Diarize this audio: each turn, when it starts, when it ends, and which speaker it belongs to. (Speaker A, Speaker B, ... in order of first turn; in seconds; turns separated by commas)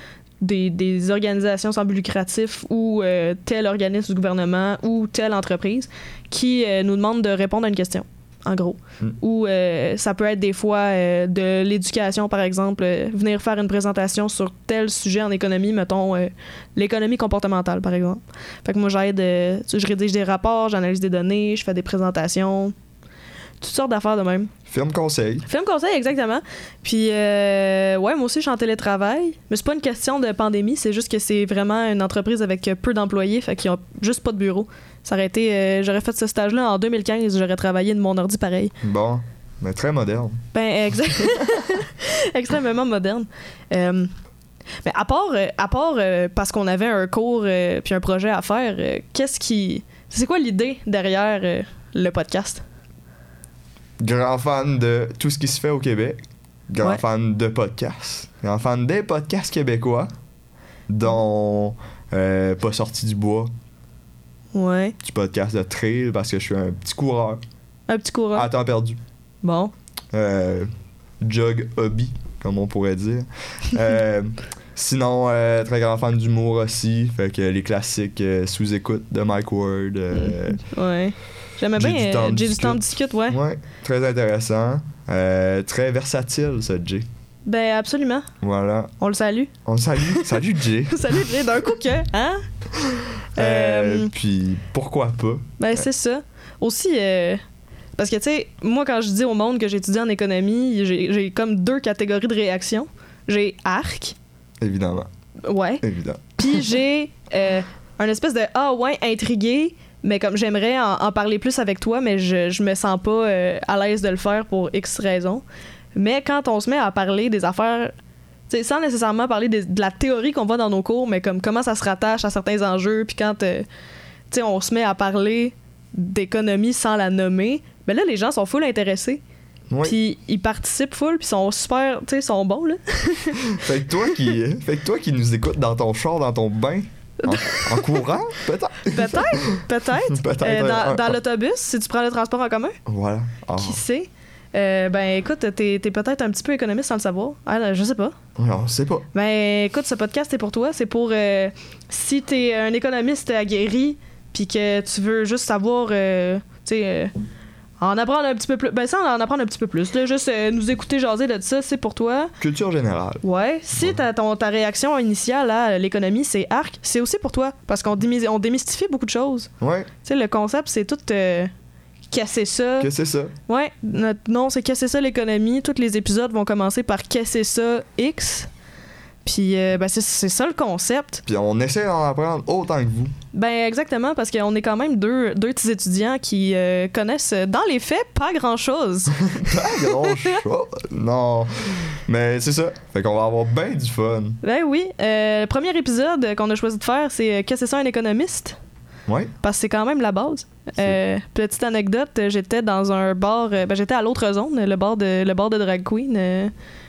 Speaker A: 0.4-22.7, Speaker A: 23.6-24.5, Speaker B: 24.7-25.4, Speaker A: 25.5-38.7, Speaker B: 38.8-40.4, Speaker A: 40.5-44.1, Speaker A: 44.8-52.6, Speaker B: 54.0-56.2, Speaker B: 56.7-60.1, Speaker B: 60.9-63.5, Speaker A: 64.5-64.9, Speaker B: 65.0-67.4, Speaker A: 67.9-68.5, Speaker B: 68.3-69.0, Speaker A: 69.4-69.7, Speaker B: 70.1-70.7, Speaker B: 71.2-80.6, Speaker A: 80.1-83.4, Speaker B: 81.7-87.0, Speaker A: 87.4-88.3, Speaker B: 88.4-88.9, Speaker A: 89.0-92.4, Speaker B: 89.7-91.3, Speaker B: 92.8-95.9, Speaker A: 93.3-94.1, Speaker A: 95.6-97.4, Speaker A: 98.0-104.2, Speaker B: 104.6-105.1, Speaker A: 105.4-105.8, Speaker B: 105.8-106.7, Speaker A: 106.4-117.9, Speaker A: 118.5-123.7, Speaker A: 124.3-129.2, Speaker B: 129.7-130.0, Speaker A: 129.8-134.3, Speaker B: 133.6-141.2, Speaker A: 137.2-138.1, Speaker A: 138.8-142.8, Speaker B: 142.9-143.8, Speaker A: 143.6-148.2, Speaker B: 148.4-149.1, Speaker A: 149.1-157.1, Speaker A: 157.8-162.3, Speaker B: 162.4-163.2, Speaker A: 163.2-169.5, Speaker B: 163.7-164.0, Speaker B: 169.6-169.9, Speaker A: 170.0-171.5, Speaker A: 172.1-172.9, Speaker B: 172.8-173.3, Speaker A: 173.5-178.5, Speaker A: 179.2-181.2, Speaker B: 181.3-183.1, Speaker A: 183.3-190.4, Speaker B: 189.3-194.4, Speaker A: 194.4-198.6, Speaker B: 199.1-199.3, Speaker A: 199.4-206.5